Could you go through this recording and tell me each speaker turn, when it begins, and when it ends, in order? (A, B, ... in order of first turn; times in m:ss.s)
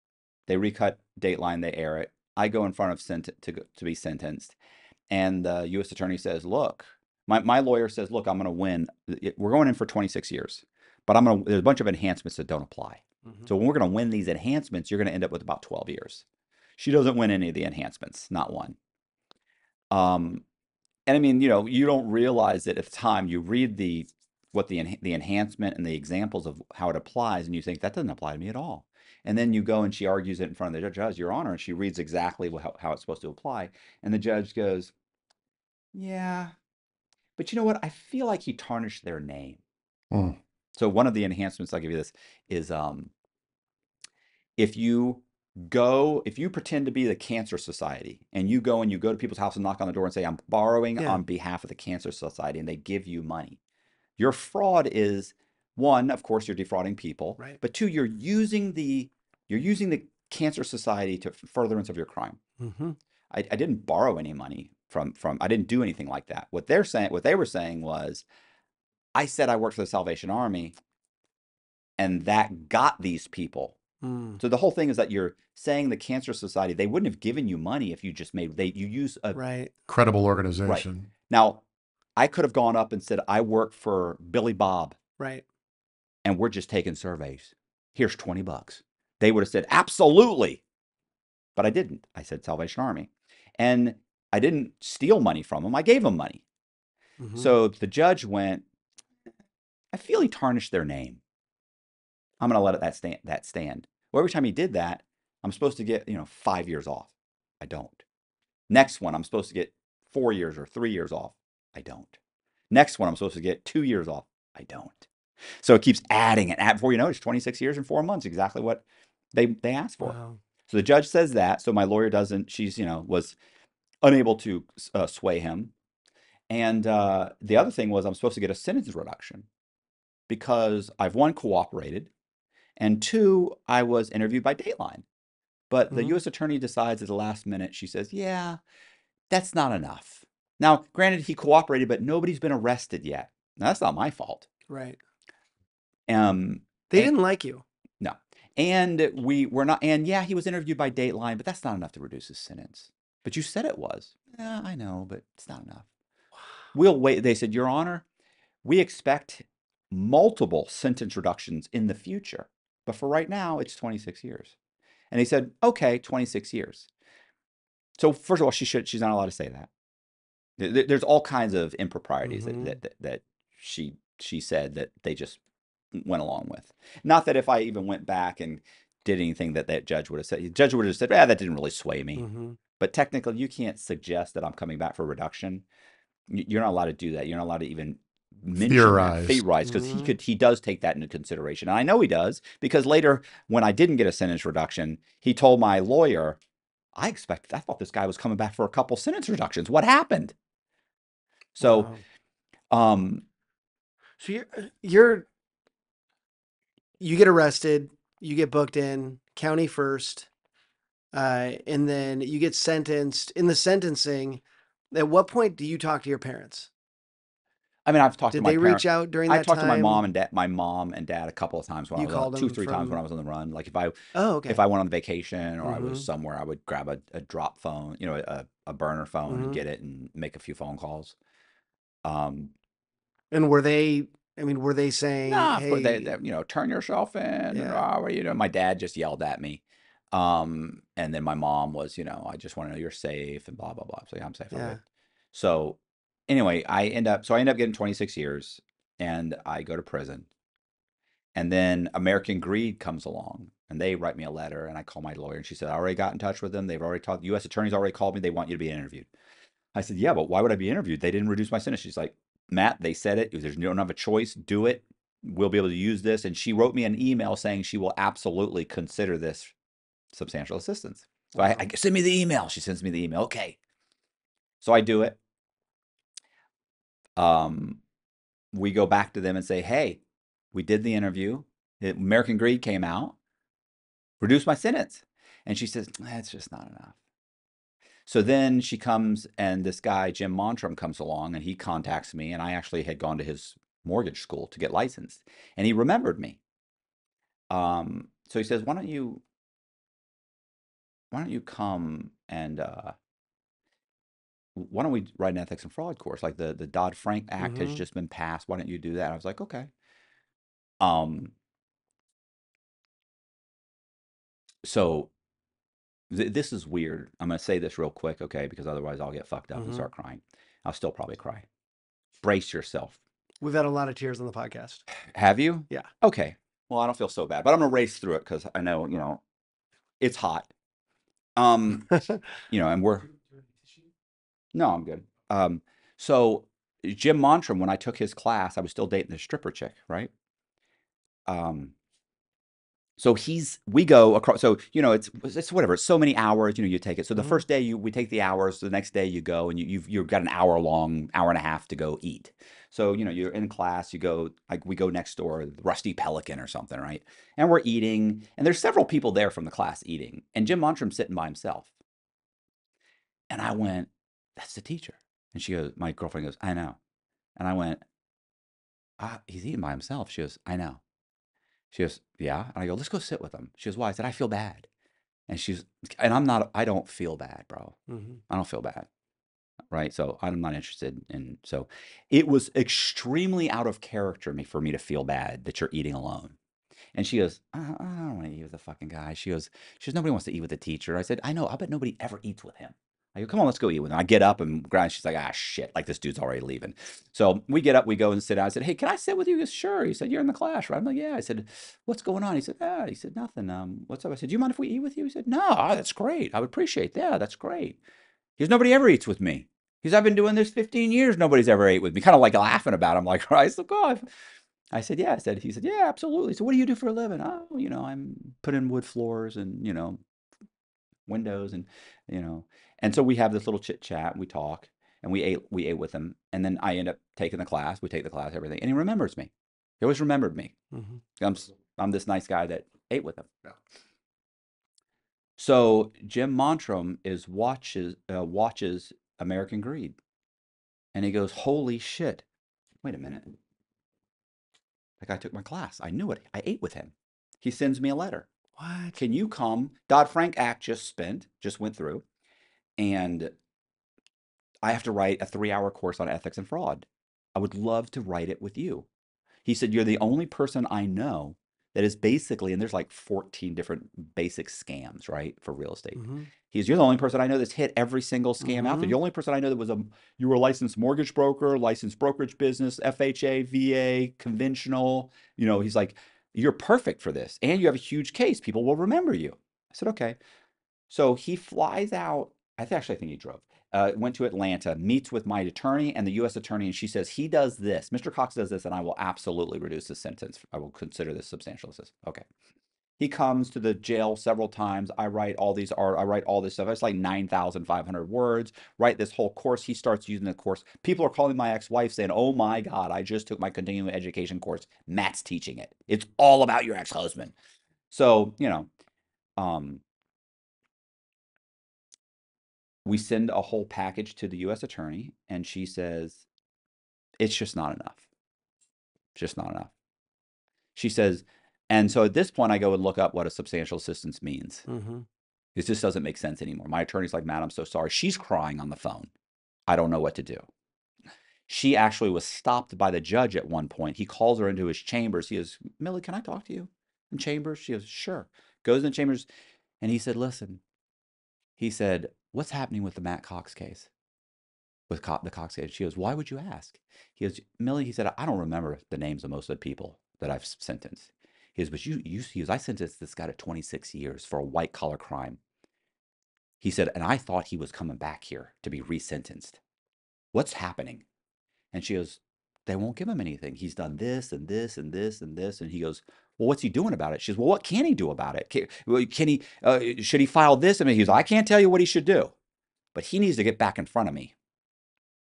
0:00.5-0:04.6 A
0:05.1-0:16.2 A
0:16.8-0:18.8 A
0:19.9-0:20.4 A
0:21.1-0:34.9 A
0:35.9-0:36.5 A
0:37.4-0:39.6 A
0:40.1-0:40.4 B
0:40.8-0:43.1 A
0:44.6-0:53.6 A
0:54.2-1:02.4 A
1:02.6-1:03.0 C
1:03.3-1:08.2 A
1:09.2-1:10.8 A
1:12.0-1:13.8 A
1:14.0-1:14.4 C
1:14.4-1:19.4 A
1:19.4-1:19.7 C
1:19.9-1:21.1 B
1:20.7-1:21.6 A
1:22.2-1:25.0 A
1:25.2-1:25.4 C
1:26.2-1:30.6 A
1:31.6-1:36.4 A
1:37.2-1:37.6 C
1:37.4-1:38.6 A
1:39.9-1:41.2 A
1:42.4-1:48.0 A
1:48.7-1:52.2 A
1:52.7-1:55.1 A
1:55.6-2:00.2 A
2:00.0-2:00.4 C
2:00.7-2:03.4 A
2:04.0-2:05.7 A
2:06.5-2:09.5 A
2:10.3-2:12.1 A
2:12.8-2:15.0 A
2:15.7-2:18.6 A
2:15.9-2:16.2 C
2:19.3-2:24.5 A
2:24.7-2:25.0 C
2:26.1-2:27.1 A
2:26.9-2:27.6 C
2:28.0-2:35.9 A
2:36.7-2:38.0 A
2:38.6-2:44.5 A
2:45.1-2:46.9 A
2:48.0-2:49.7 A
2:50.6-2:55.4 A
2:52.2-2:52.8 C
2:55.9-3:02.2 A
3:02.2-3:02.6 C
3:02.8-3:05.6 A
3:06.3-3:16.4 A
3:08.6-3:09.4 B
3:09.6-3:10.1 C
3:17.0-3:20.3 A
3:21.6-3:21.9 A
3:21.6-3:22.0 C
3:22.7-3:23.2 A
3:24.2-3:25.3 C
3:27.0-3:30.3 C
3:31.1-3:34.4 C
3:34.9-3:36.7 C
3:37.9-3:44.0 A
3:38.3-3:40.0 C
3:42.0-3:43.0 C
3:44.1-3:44.6 C
3:44.5-3:51.2 A
3:45.6-3:46.0 C
3:49.3-3:49.6 C
3:52.0-3:52.5 A
3:53.3-3:56.2 C
3:55.3-4:04.8 A
3:57.5-3:57.8 C
4:04.5-4:04.8 C
4:05.3-4:10.3 A
4:11.4-4:19.1 A
4:19.8-4:29.5 A
4:30.1-4:33.6 A
4:34.6-4:35.2 A
4:37.2-4:37.8 A
4:38.5-4:40.0 A
4:40.5-4:43.2 A
4:44.2-4:47.0 A
4:48.1-4:56.4 A
4:57.5-4:59.2 A
5:01.1-5:03.0 A
5:04.6-5:09.7 A
5:07.4-5:07.8 C
5:10.8-5:11.3 A
5:14.6-5:15.1 A
5:16.1-5:21.5 A
5:19.6-5:19.9 C
5:22.2-5:23.0 A
5:23.4-5:24.8 C
5:25.1-5:29.2 A
5:30.0-5:30.5 A
5:31.4-5:33.1 A
5:34.5-5:40.1 A
5:41.3-5:41.7 A
5:43.0-6:01.7 A
6:03.3-6:06.8 A
6:07.4-6:07.8 A
6:09.0-6:10.8 A
6:11.7-6:14.7 A
6:15.3-6:17.8 A
6:17.9-6:18.2 C
6:18.3-6:18.9 A
6:19.7-6:26.4 A
6:27.0-6:47.8 A
6:48.4-6:54.1 A
6:54.7-7:00.0 A
7:01.1-7:10.5 A
7:10.7-7:11.0 C
7:11.2-7:13.3 A
7:15.4-7:20.0 A
7:21.0-7:22.2 A
7:22.8-7:23.4 A
7:25.0-7:28.3 A
7:28.6-7:29.0 C
7:29.0-7:32.0 A
7:32.8-7:33.3 A
7:34.6-7:38.9 A
7:39.4-8:00.2 A
7:46.0-7:46.3 C
7:48.4-7:49.0 C
8:00.9-8:12.2 A
8:13.0-8:27.3 A
8:27.9-8:28.7 A
8:29.4-8:29.8 A
8:32.8-8:36.2 A
8:37.2-8:38.0 A
8:39.2-8:39.7 A
8:40.8-8:44.6 A
8:44.7-8:45.1 C
8:45.6-8:49.1 A
8:49.7-8:50.5 A
8:51.5-8:59.3 A
8:59.8-9:00.6 A
9:01.6-9:03.9 A
9:04.9-9:15.4 A
9:16.6-9:19.6 A
9:20.3-9:21.0 A
9:21.7-9:32.3 A
9:32.9-9:34.3 A